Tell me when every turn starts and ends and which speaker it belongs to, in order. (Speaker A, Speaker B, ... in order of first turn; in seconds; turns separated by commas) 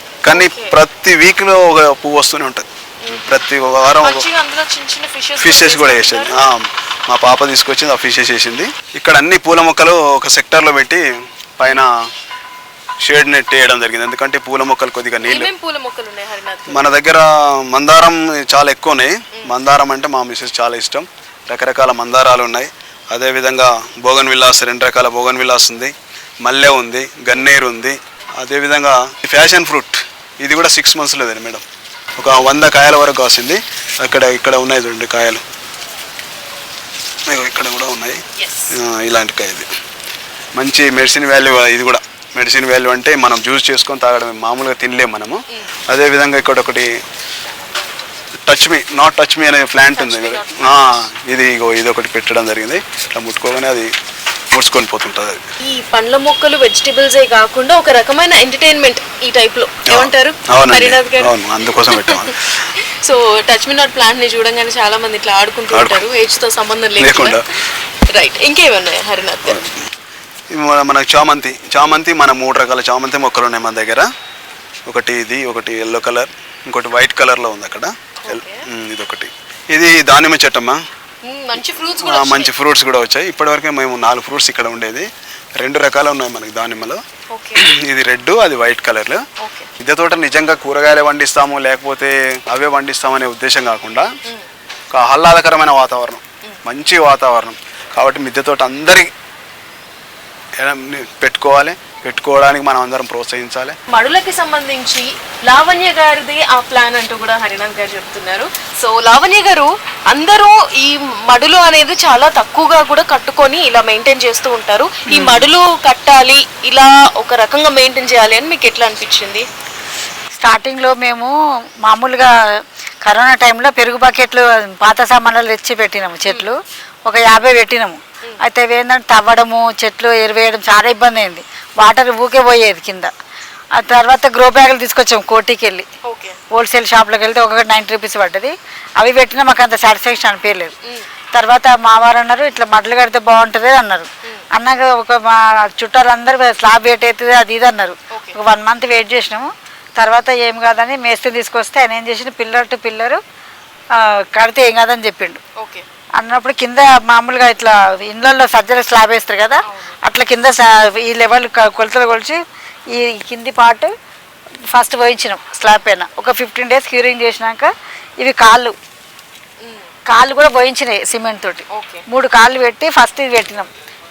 Speaker A: 0.2-4.3, Speaker B: 0.3-0.8, Speaker B: 3.0-3.4, Speaker B: 4.0-6.4, Speaker A: 5.4-12.1, Speaker A: 13.0-15.5, Speaker B: 15.2-16.9, Speaker A: 16.7-31.6, Speaker A: 32.2-35.4, Speaker A: 37.3-39.7, Speaker B: 38.4-38.8, Speaker A: 40.6-47.0, Speaker A: 48.5-53.9, Speaker B: 49.9-51.1, Speaker A: 54.5-55.4, Speaker B: 55.6-67.6, Speaker A: 59.9-62.4, Speaker A: 65.7-66.1, Speaker A: 67.0-67.5, Speaker B: 68.1-69.7, Speaker A: 69.5-69.9, Speaker A: 70.5-74.1, Speaker A: 74.9-80.8, Speaker B: 78.2-78.6, Speaker B: 81.2-82.5, Speaker A: 82.0-87.0, Speaker B: 87.3-87.7, Speaker A: 87.5-89.3, Speaker B: 89.4-89.7, Speaker A: 89.8-94.1, Speaker A: 94.9-99.1, Speaker A: 100.6-103.8, Speaker B: 103.9-119.5, Speaker C: 115.1-115.4, Speaker C: 120.4-122.3, Speaker C: 123.0-133.1, Speaker C: 133.8-135.9, Speaker B: 136.0-136.4, Speaker C: 136.5-140.7, Speaker C: 141.3-153.2, Speaker B: 148.1-148.4, Speaker C: 153.9-155.4, Speaker B: 155.6-155.9, Speaker C: 156.2-162.4, Speaker B: 159.7-160.0, Speaker C: 162.9-163.9, Speaker C: 164.7-168.8, Speaker B: 169.6-169.9, Speaker C: 170.1-173.7, Speaker B: 171.7-172.1